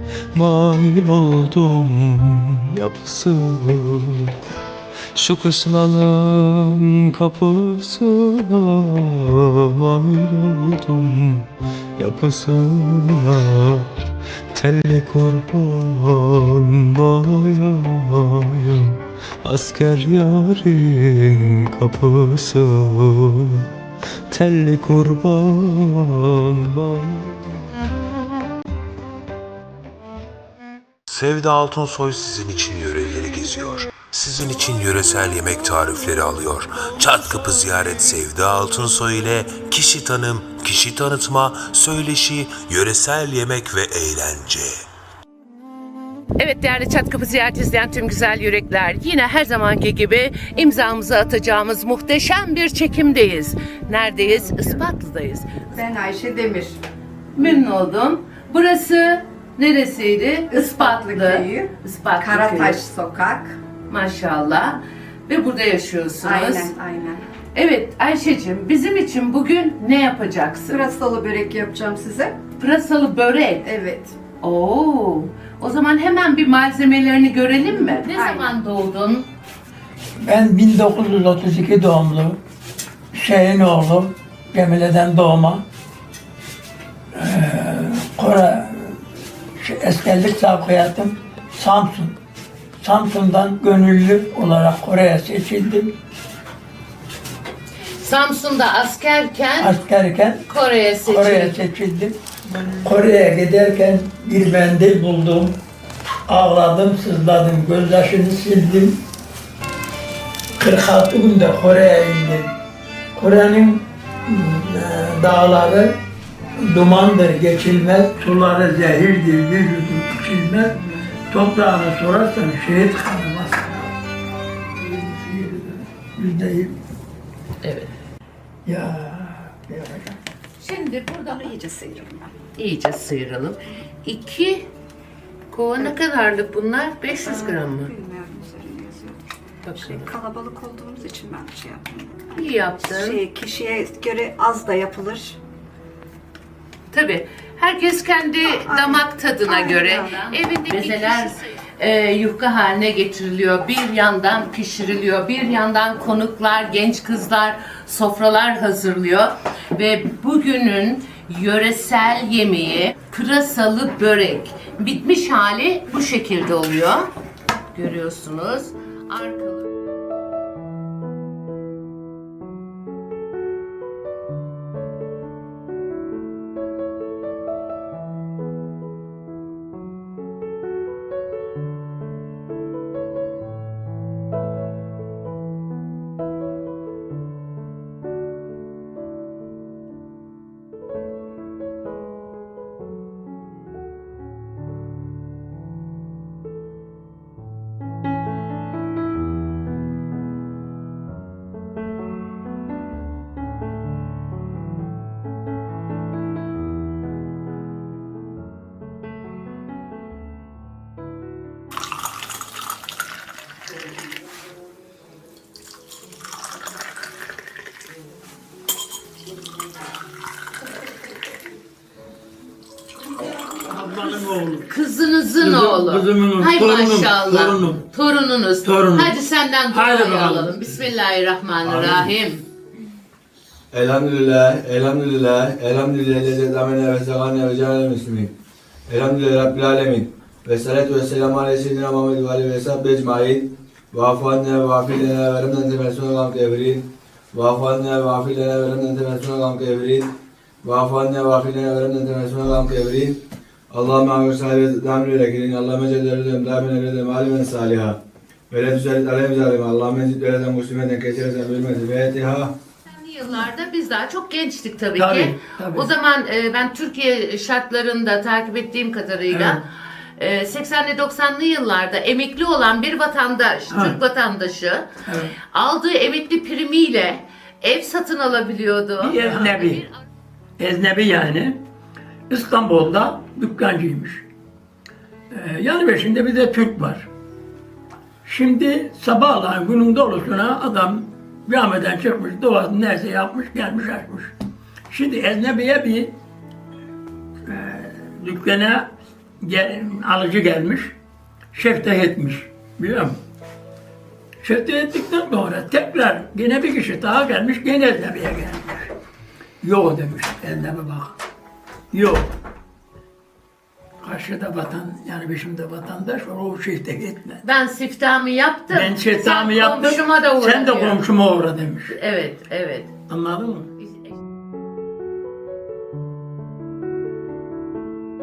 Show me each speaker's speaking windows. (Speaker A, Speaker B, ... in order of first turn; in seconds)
Speaker A: 0.3-4.3, 5.1-13.9, 14.5-23.7, 24.3-27.6
Speaker B: 31.1-44.8
Speaker C: 46.4-55.5, 57.4-62.8, 63.9-66.7, 67.5-70.8, 72.6-73.7, 74.4-79.3, 98.0-99.7, 100.5-101.6, 127.6-127.9, 130.6-131.5, 132.6-134.7, 135.5-137.9, 139.6-140.1, 142.3-143.2, 146.9-167.1, 167.7-169.7, 224.7-232.4, 262.9-269.6, 270.2-274.9, 275.5-279.9, 317.4-321.0, 321.9-322.9, 323.8-324.1
Speaker D: 55.7-56.8, 60.5-63.6, 66.2-67.2, 70.7-72.4, 73.6-74.2, 78.0-78.5, 131.3-132.3, 137.2-139.2, 139.8-142.3, 142.9-145.4, 148.5-150.4
Speaker E: 80.2-82.4, 83.1-85.6, 87.1-89.0, 89.6-92.2, 92.8-95.9, 99.6-100.5, 101.0-102.2, 102.8-105.6, 106.3-109.0, 110.6-112.5, 113.2-116.0, 116.6-123.9, 124.8-126.7, 128.7-130.2, 223.4-224.7, 225.4-227.8, 228.6-229.1, 229.7-230.6, 265.0-265.9, 269.3-269.6, 273.7-274.0, 275.1-275.3, 279.0-279.8, 280.6-281.6, 282.3-284.2, 285.3-287.1, 288.2-294.3, 294.9-296.1, 297.4-298.9, 299.4-300.9, 301.5-303.2, 304.4-308.9, 309.6-311.1, 311.9-312.3, 314.0-317.4, 318.7-321.9, 323.1-323.7
Speaker F: 231.6-232.1, 233.7-238.3, 238.9-253.2, 253.7-258.0, 258.5-262.5